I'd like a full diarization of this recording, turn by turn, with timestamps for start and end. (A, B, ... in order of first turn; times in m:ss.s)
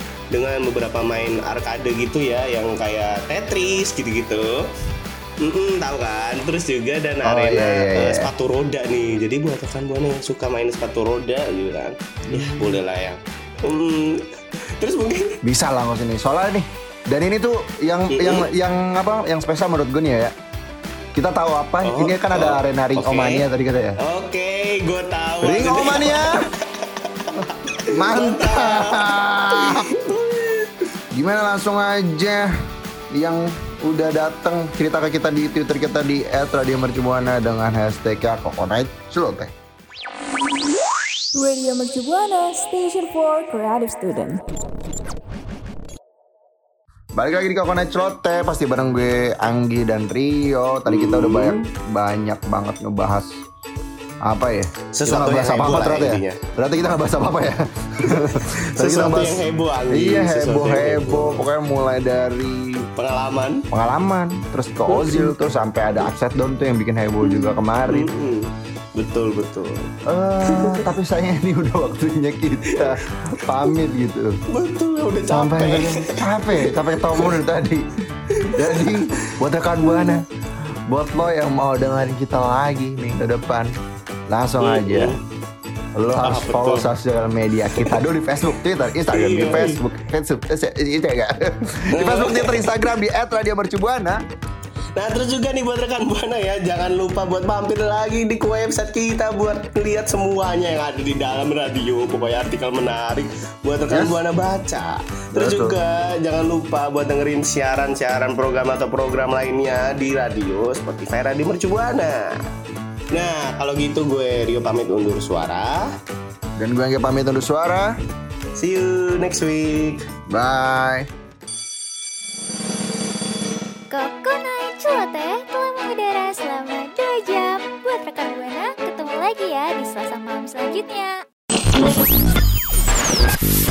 0:00.3-0:04.6 A
0:05.4-0:14.2 A
0:07.2-0:08.3 B
0:12.3-0:12.8 B
0:14.8-0:15.4 A
0:15.4-0:20.3 B
0:18.1-0:18.5 A
0:21.2-0:24.0 B
0:21.8-0:23.5 A
0:24.0-0:30.7 A
0:25.4-0:26.4 B
0:27.9-0:29.9 B
0:31.1-0:32.5 B
0:33.1-0:39.5 B
0:41.4-0:44.4 C
0:47.2-0:53.3 B
0:50.9-0:51.7 A
0:54.2-1:02.8 B
0:54.9-0:56.4 A
0:58.0-1:01.4 A
1:03.0-1:03.6 A
1:03.7-1:08.1 B
1:04.9-1:05.4 A
1:07.2-1:09.9 A
1:10.1-1:14.4 B
1:10.4-1:10.8 A
1:14.5-1:17.4 A
1:15.3-1:17.8 B
1:18.4-1:19.0 A
1:18.5-1:20.2 B
1:19.8-1:20.1 A
1:20.9-1:23.7 B
1:24.3-1:25.2 B
1:24.6-1:25.2 A
1:26.0-1:34.2 B
1:26.2-1:26.9 A
1:29.1-1:29.8 A
1:31.9-1:32.8 A
1:35.0-1:52.3 A
1:43.9-1:44.2 B
1:45.3-1:45.8 B
1:53.1-1:55.9 A
1:56.6-1:57.9 B
1:58.6-2:00.0 A
2:00.3-2:01.1 B
2:03.9-2:11.2 D